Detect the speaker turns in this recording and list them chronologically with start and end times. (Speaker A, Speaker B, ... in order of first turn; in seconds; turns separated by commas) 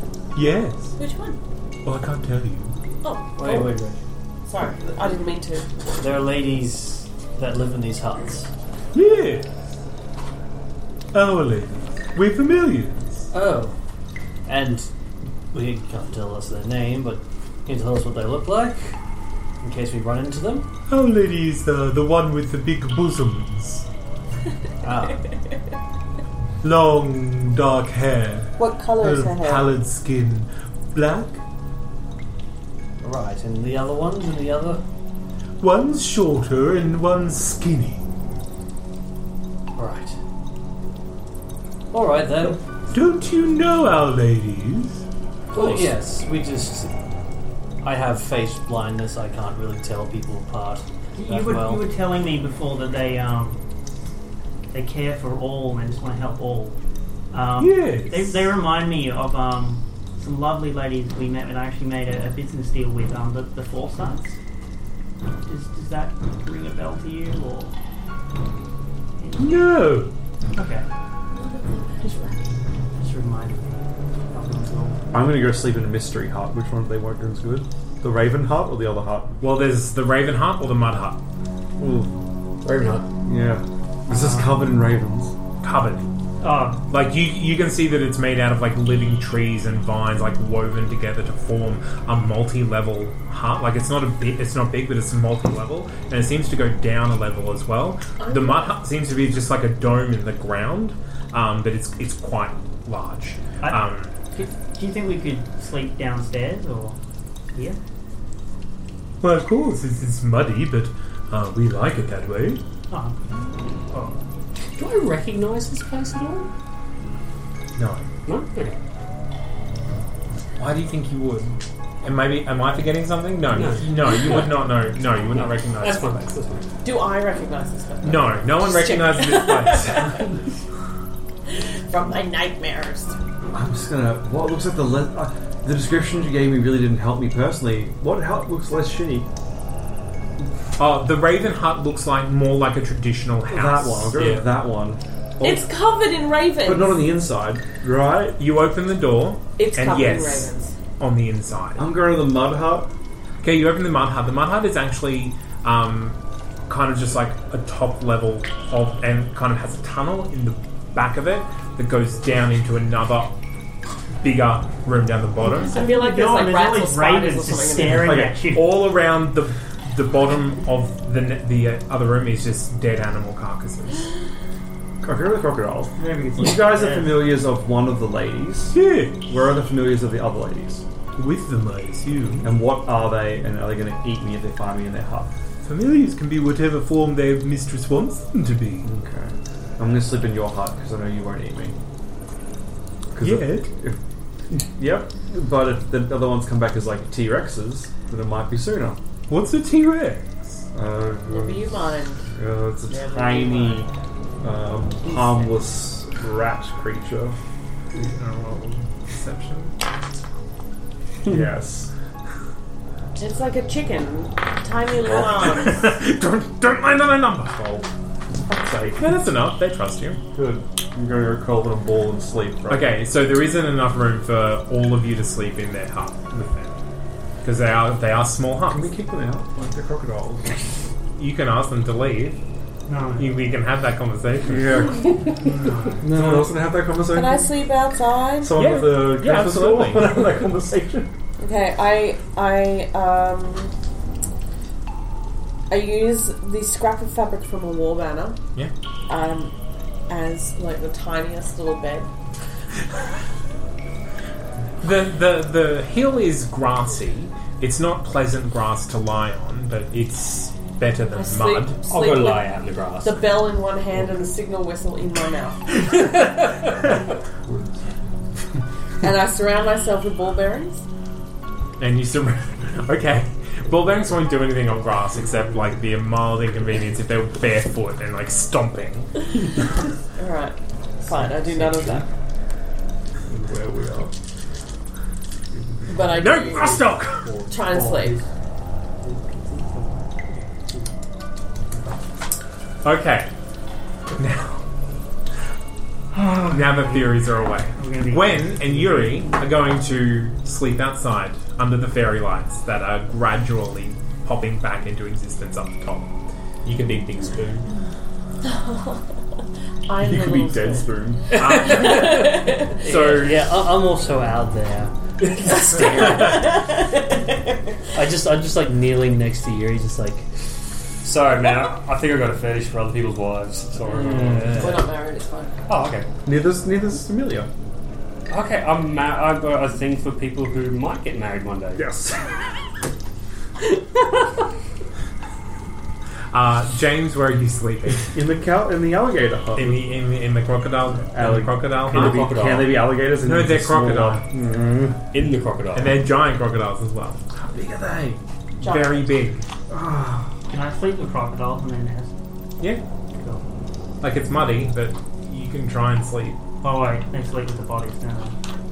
Speaker A: 0.3-0.9, Speaker B: 1.0-1.4, Speaker A: 1.9-2.8, Speaker B: 3.0-3.8, Speaker C: 3.4-4.0, Speaker B: 4.5-5.7, Speaker C: 6.0-8.5, Speaker A: 8.9-9.5, Speaker A: 11.1-13.2, Speaker C: 13.3-13.8, Speaker C: 14.5-14.9, Speaker C: 15.5-18.9, Speaker C: 19.6-20.7, Speaker A: 20.9-23.9, Speaker C: 24.8-25.3, Speaker A: 26.6-31.4, Speaker B: 28.6-29.7, Speaker C: 33.0-34.8, Speaker A: 35.6-38.1, Speaker C: 39.8-40.2, Speaker C: 41.9-42.6, Speaker A: 42.9-45.0, Speaker C: 45.5-46.9, Speaker D: 45.6-45.8, Speaker C: 47.8-51.9, Speaker E: 51.2-53.6, Speaker E: 54.7-56.8, Speaker E: 57.3-64.4, Speaker A: 57.6-58.5, Speaker E: 65.5-67.8, Speaker E: 69.2-69.7, Speaker A: 69.4-70.1, Speaker E: 70.5-70.9, Speaker B: 71.3-72.5, Speaker E: 73.0-75.0, Speaker F: 75.1-79.3, Speaker A: 79.4-81.2, Speaker F: 81.8-82.0, Speaker D: 82.6-83.1, Speaker F: 83.2-85.3, Speaker E: 84.1-84.5, Speaker A: 85.6-86.1, Speaker E: 86.4-86.8, Speaker A: 86.8-104.2, Speaker B: 98.2-98.8, Speaker E: 103.6-107.0, Speaker A: 109.2-112.6, Speaker E: 112.9-113.2, Speaker E: 113.9-114.2, Speaker D: 114.8-116.5, Speaker A: 117.8-118.1, Speaker D: 118.2-118.8, Speaker A: 120.6-126.3, Speaker D: 123.5-124.6, Speaker D: 125.3-126.7, Speaker B: 126.8-130.2, Speaker A: 128.0-130.4, Speaker B: 131.5-133.2, Speaker F: 133.5-139.3, Speaker A: 140.8-144.2, Speaker F: 143.5-145.7, Speaker D: 144.1-144.5, Speaker B: 145.4-147.1, Speaker F: 146.6-148.4, Speaker A: 148.4-151.8, Speaker B: 149.6-150.8, Speaker F: 151.8-152.9, Speaker A: 153.4-156.2, Speaker A: 156.7-163.4, Speaker A: 164.2-165.8, Speaker B: 165.4-168.2, Speaker E: 165.6-168.7, Speaker F: 167.8-168.4, Speaker A: 168.5-174.1, Speaker F: 175.0-178.8, Speaker E: 176.0-177.2, Speaker A: 178.7-179.2, Speaker F: 179.3-180.8, Speaker A: 181.2-182.5, Speaker F: 182.4-185.3, Speaker A: 185.6-188.9, Speaker F: 188.8-191.8, Speaker F: 193.1-194.0, Speaker A: 193.2-193.7, Speaker F: 194.8-199.0, Speaker A: 199.3-200.6, Speaker F: 200.7-203.9, Speaker B: 201.3-202.3, Speaker B: 202.9-203.9, Speaker F: 204.4-207.4, Speaker B: 205.0-205.6, Speaker A: 207.9-209.7, Speaker F: 211.3-211.9, Speaker B: 213.2-215.9, Speaker F: 215.1-215.4, Speaker A: 215.2-217.9, Speaker F: 218.5-219.1, Speaker A: 218.9-220.2, Speaker F: 220.3-222.9, Speaker A: 222.7-226.8, Speaker A: 227.4-228.9, Speaker F: 228.7-230.5, Speaker A: 231.2-232.4, Speaker E: 232.9-233.4, Speaker A: 233.2-234.9, Speaker F: 234.5-235.3, Speaker E: 235.4-236.1, Speaker F: 236.0-237.5, Speaker B: 237.1-238.5, Speaker F: 238.4-241.1, Speaker A: 238.6-240.3, Speaker B: 241.4-243.7, Speaker B: 245.7-248.4, Speaker B: 249.1-249.5, Speaker B: 250.1-252.1, Speaker A: 254.8-261.8, Speaker B: 261.1-262.5, Speaker D: 261.8-263.4, Speaker B: 263.0-265.6, Speaker F: 267.5-268.1, Speaker B: 269.0-270.8, Speaker A: 271.8-279.1, Speaker B: 280.2-282.1, Speaker F: 281.2-282.0, Speaker F: 283.3-284.1, Speaker B: 285.9-286.8, Speaker A: 285.9-287.3, Speaker B: 287.5-288.2, Speaker A: 292.8-293.3, Speaker A: 294.1-294.6, Speaker F: 296.1-296.5, Speaker A: 296.5-306.1, Speaker E: 296.6-297.2, Speaker E: 297.8-299.4, Speaker D: 306.6-307.7, Speaker B: 308.4-309.1, Speaker B: 309.9-312.9, Speaker F: 310.0-311.2, Speaker A: 311.4-313.5, Speaker C: 312.9-314.9, Speaker B: 315.4-317.5, Speaker C: 317.9-320.3, Speaker D: 321.0-324.9, Speaker C: 324.0-324.4, Speaker B: 324.1-325.5, Speaker F: 324.1-324.7, Speaker D: 325.7-326.1, Speaker F: 326.2-327.5, Speaker D: 328.3-331.9, Speaker F: 331.8-332.4, Speaker A: 336.3-338.1, Speaker F: 338.1-339.9, Speaker A: 339.6-342.4, Speaker F: 341.1-345.0, Speaker D: 341.9-342.8, Speaker A: 343.2-344.3, Speaker D: 345.1-346.0, Speaker A: 345.7-347.2, Speaker F: 347.3-348.2, Speaker B: 348.6-349.1, Speaker A: 348.6-349.4, Speaker F: 349.7-350.3, Speaker E: 350.5-352.1, Speaker E: 353.2-353.4, Speaker A: 354.0-356.4, Speaker E: 356.6-358.4